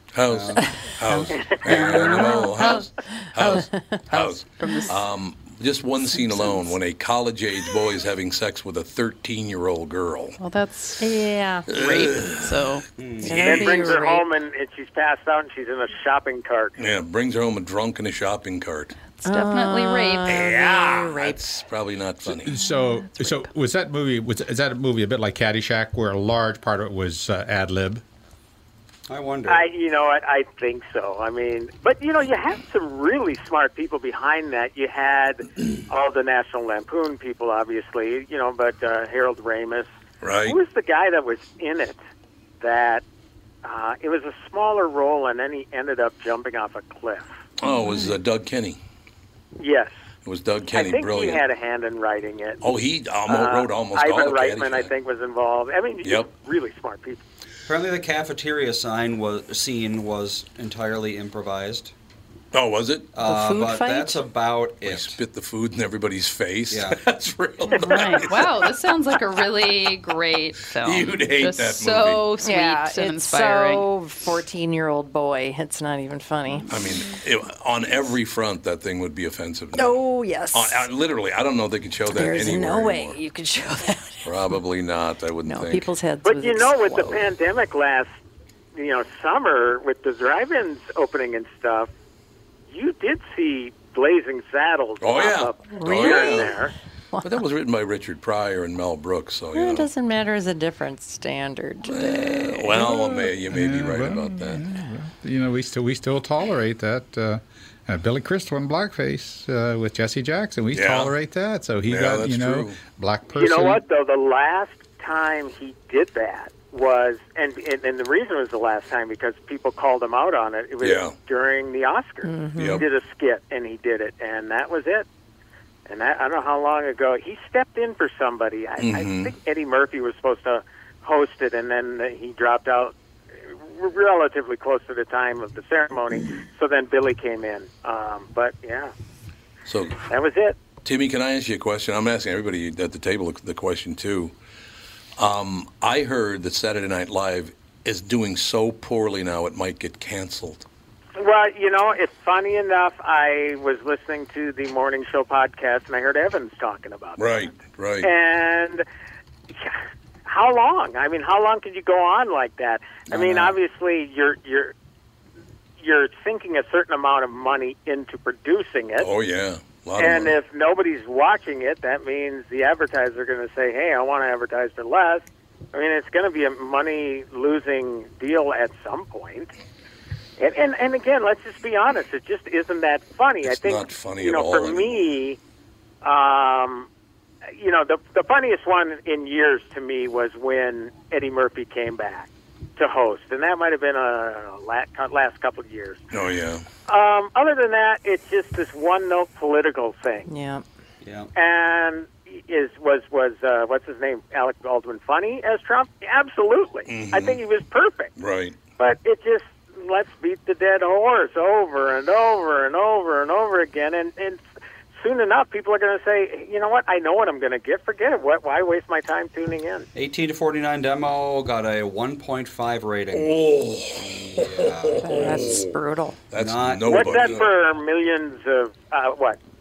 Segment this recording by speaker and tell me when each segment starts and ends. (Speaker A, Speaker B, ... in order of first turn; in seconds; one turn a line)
Speaker A: 0.1-10.4
Speaker B: 0.3-0.6
Speaker C: 1.4-4.9
Speaker D: 1.6-2.8
Speaker D: 4.6-4.9
Speaker C: 6.3-6.6
Speaker D: 10.4-11.1
Speaker C: 11.0-11.8
Speaker A: 11.7-12.6
Speaker D: 11.7-12.8
Speaker B: 13.0-13.3
Speaker C: 13.2-14.2
Speaker A: 13.3-13.9
Speaker E: 13.4-16.7
Speaker A: 16.8-18.9
Speaker D: 19.1-20.4
Speaker C: 19.2-21.4
Speaker A: 20.2-22.5
Speaker F: 22.2-28.0
Speaker D: 22.6-23.5
Speaker B: 29.1-29.6
Speaker E: 29.5-39.9
Speaker A: 40.2-40.6
Speaker E: 40.4-42.0
Speaker E: 42.6-43.0
Speaker E: 43.6-47.3
Speaker A: 47.6-48.8
Speaker E: 49.6-49.9
Speaker A: 50.2-51.4
Speaker E: 50.7-52.6
Speaker A: 52.6-54.9
Speaker E: 53.3-57.2
Speaker B: 57.7-61.9
Speaker A: 62.5-63.1
Speaker B: 63.1-65.2
Speaker C: 63.2-64.2
Speaker A: 64.8-68.9
Speaker B: 66.7-67.0
Speaker D: 67.7-73.9
Speaker A: 70.7-72.3
Speaker C: 72.4-76.7
Speaker A: 76.7-80.0
Speaker C: 79.7-80.9
Speaker A: 80.5-83.2
Speaker C: 82.1-84.3
Speaker A: 84.2-85.9
Speaker C: 85.4-87.2
Speaker E: 86.2-88.1
Speaker E: 88.7-91.9
Speaker E: 92.7-96.7
Speaker A: 95.0-96.5
Speaker C: 95.8-97.4
Speaker A: 97.2-99.9
Speaker C: 99.5-103.3
Speaker A: 101.9-104.6
Speaker F: 103.4-113.8
Speaker A: 110.7-111.1
Speaker A: 111.8-112.8
Speaker E: 113.3-125.0
Speaker A: 120.8-121.1
Speaker C: 122.2-122.8
Speaker A: 122.6-122.8
Speaker E: 125.9-132.9
Speaker A: 128.8-129.3
Speaker E: 133.5-138.9
Speaker A: 139.7-140.1
Speaker E: 140.1-140.6
Speaker A: 140.8-144.3
Speaker A: 145.2-150.7
Speaker E: 151.2-157.2
Speaker A: 157.2-158.1
Speaker E: 158.0-158.8
Speaker E: 159.6-164.7
Speaker B: 163.1-163.6
Speaker E: 165.8-169.1
Speaker A: 169.0-170.3
Speaker E: 170.0-179.5
Speaker E: 180.4-185.4
Speaker A: 183.4-185.0
Speaker E: 186.0-186.9
Speaker E: 187.6-196.0
Speaker A: 196.1-196.6
Speaker E: 196.9-200.3
Speaker C: 200.3-200.6
Speaker B: 201.0-201.3
Speaker E: 201.3-208.1
Speaker A: 206.9-207.4
Speaker A: 208.2-208.6
Speaker E: 208.8-219.9
Speaker B: 219.9-223.3
Speaker A: 223.1-225.7
Speaker B: 224.0-225.6
Speaker C: 225.0-226.2
Speaker A: 226.3-227.5
Speaker B: 226.3-227.4
Speaker E: 226.9-229.4